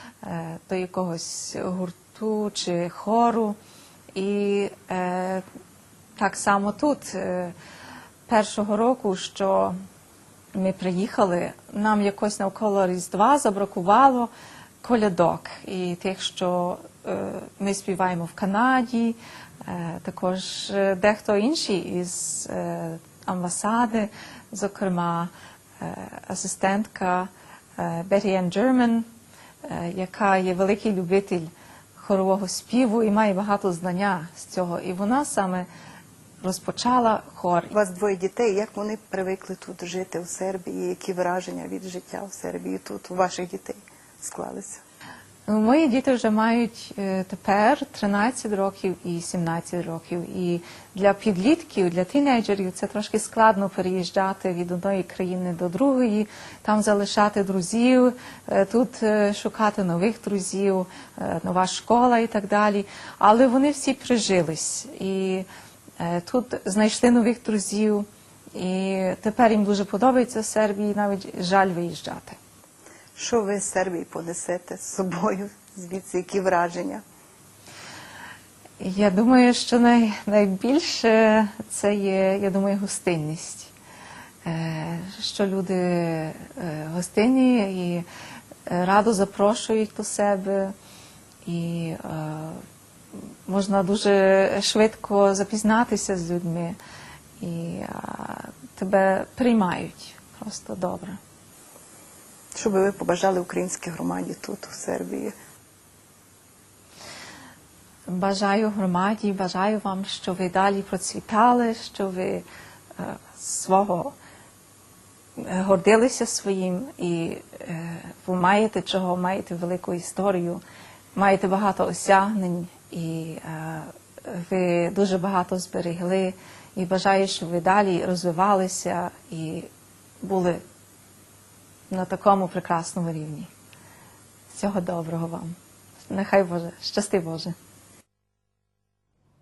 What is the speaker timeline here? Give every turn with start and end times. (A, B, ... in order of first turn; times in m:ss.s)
0:00.2-0:03.6 A
0:04.1-0:05.4 A
0:06.2-0:07.5 A
0:08.3-0:09.8 A
0:10.6-0:14.3 A
0:14.8-0:29.1 A
0:29.6-0:35.7 A
0:36.4-0:37.7 A
0:37.7-0:44.8 B
0:45.5-1:05.5 A
1:06.0-1:12.4 A
1:13.2-1:17.0 B
1:18.8-1:23.7 A
1:24.4-1:28.1 A
1:28.7-1:30.7 A
1:31.5-1:32.6 A
1:33.5-1:36.8 A
1:37.4-1:41.2 A
1:42.6-1:45.3 B
1:48.1-1:52.5 A
1:53.0-1:54.2 A
1:55.4-2:00.6 A
2:01.2-2:09.7 A
2:10.2-2:10.6 A
2:11.9-2:13.5 A
2:14.5-2:15.6 A
2:16.1-2:17.6 A